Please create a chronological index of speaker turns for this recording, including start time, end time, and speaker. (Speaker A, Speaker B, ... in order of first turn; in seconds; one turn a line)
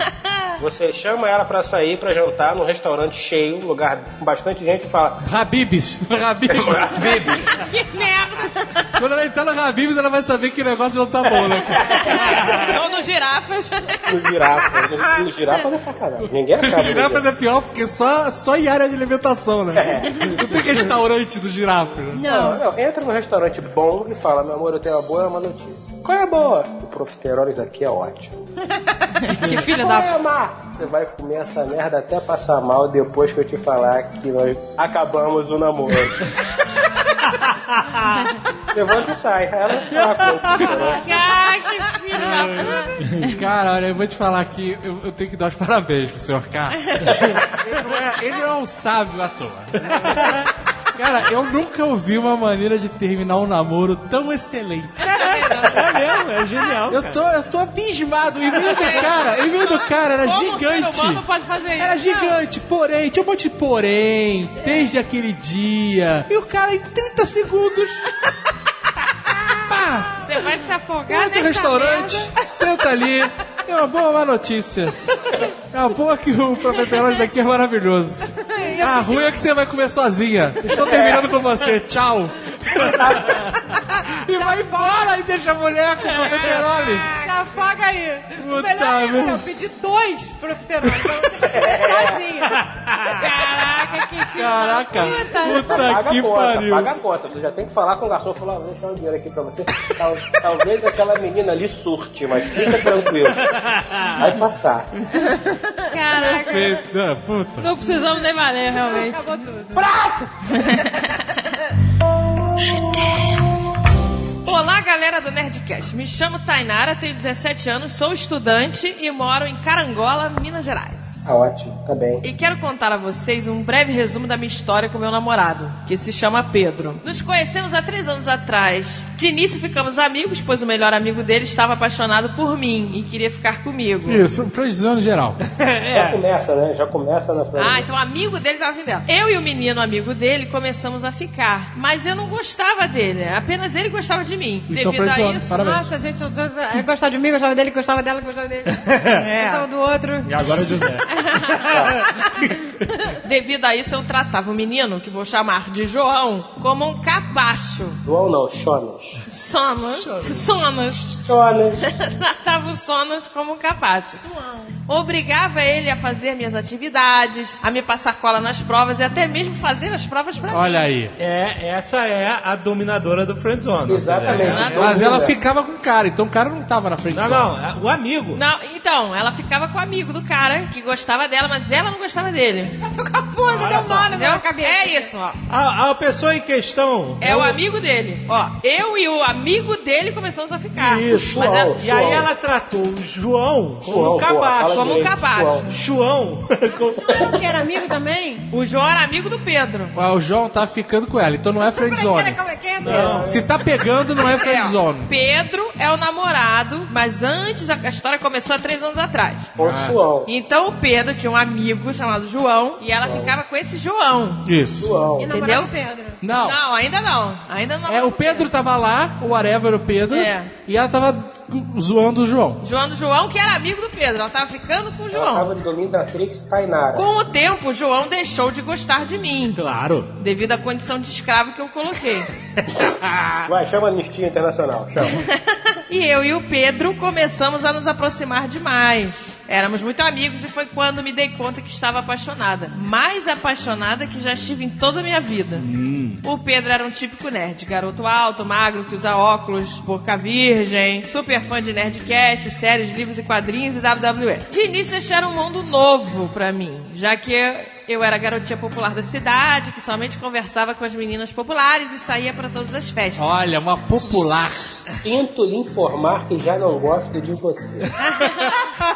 Speaker A: 0.6-5.2
Speaker B: 5.2-7.4
Speaker A: 6.5-7.5
Speaker C: 7.5-8.9
Speaker B: 9.0-12.2
Speaker A: 11.5-12.1
Speaker C: 12.0-14.3
Speaker A: 14.1-17.3
Speaker B: 16.6-22.3
Speaker A: 19.7-20.3
Speaker A: 22.2-28.4
Speaker C: 29.3-30.1
Speaker A: 29.3-36.1
Speaker A: 38.7-41.2
Speaker C: 41.0-43.3
Speaker D: 42.3-43.3
Speaker E: 42.6-42.9
Speaker B: 43.2-47.0
Speaker B: 47.6-50.4
Speaker D: 50.0-50.5
Speaker B: 50.9-55.8
Speaker C: 55.1-55.7
Speaker D: 55.7-57.2
Speaker B: 56.9-61.2
Speaker C: 58.6-62.4
Speaker B: 61.8-68.2
Speaker B: 69.7-70.2
Speaker C: 70.2-72.3
Speaker B: 71.1-75.0
Speaker B: 75.7-83.4
Speaker E: 78.4-79.3
Speaker A: 80.7-81.4
Speaker E: 83.7-85.2
Speaker B: 84.2-87.1
Speaker C: 86.2-87.3
Speaker E: 87.1-92.6
Speaker B: 88.4-89.4
Speaker A: 91.4-92.3
Speaker D: 92.6-93.2
Speaker C: 93.1-95.8
Speaker B: 94.3-96.9
Speaker A: 95.6-103.5
Speaker D: 103.5-104.2
Speaker A: 104.2-104.9
Speaker E: 105.2-105.9
Speaker C: 105.9-106.8
Speaker B: 106.2-107.7
Speaker C: 107.6-109.2
Speaker E: 108.8-109.9
Speaker A: 109.7-110.3
Speaker C: 110.5-111.2
Speaker C: 114.4-121.2
Speaker A: 121.2-122.2
Speaker C: 122.2-134.2
Speaker B: 134.1-135.4
Speaker D: 135.6-136.2
Speaker A: 135.9-137.9
Speaker C: 137.6-145.7
Speaker B: 144.7-145.9
Speaker E: 145.6-150.3
Speaker D: 148.8-149.2
Speaker C: 149.2-149.7
Speaker D: 150.2-152.5
Speaker C: 151.2-151.6
Speaker A: 151.7-152.0
Speaker C: 153.2-158.0
Speaker A: 158.0-159.2
Speaker C: 159.3-161.1
Speaker D: 159.9-160.4
Speaker A: 160.9-161.9
Speaker C: 161.8-164.2
Speaker E: 164.2-164.7
Speaker C: 164.9-170.8
Speaker B: 170.5-171.1
Speaker D: 171.2-175.0
Speaker A: 173.8-175.4
Speaker C: 174.3-175.0
Speaker B: 174.7-177.5
Speaker D: 177.1-178.4
Speaker C: 178.3-182.8
Speaker E: 182.8-185.1
Speaker D: 183.4-184.1
Speaker C: 184.1-185.4
Speaker D: 185.5-187.6
Speaker C: 187.2-191.8
Speaker D: 190.8-195.1
Speaker A: 191.1-192.3
Speaker A: 193.8-195.7
Speaker C: 194.7-195.6
Speaker D: 195.7-197.1
Speaker E: 197.1-198.4
Speaker C: 198.5-199.9
Speaker B: 199.9-202.4
Speaker E: 201.7-203.3
Speaker A: 202.8-203.5
Speaker D: 202.9-203.3
Speaker B: 202.9-205.1
Speaker C: 204.2-209.5
Speaker A: 209.6-210.3
Speaker B: 209.6-210.0
Speaker C: 210.3-214.4
Speaker A: 213.0-213.4
Speaker B: 214.4-214.9
Speaker A: 214.8-215.3
Speaker E: 215.2-216.2
Speaker C: 215.3-215.7
Speaker B: 216.2-216.6
Speaker C: 216.4-218.5
Speaker B: 217.9-222.6
Speaker C: 220.1-220.5
Speaker C: 222.6-225.5
Speaker A: 225.1-227.1
Speaker C: 226.9-229.6
Speaker D: 229.5-230.1
Speaker C: 230.2-232.3
Speaker A: 233.5-235.2
Speaker C: 235.2-245.6
Speaker D: 245.6-246.2
Speaker C: 246.2-263.2
Speaker B: 263.2-264.8
Speaker A: 264.9-267.9
Speaker C: 268.0-268.7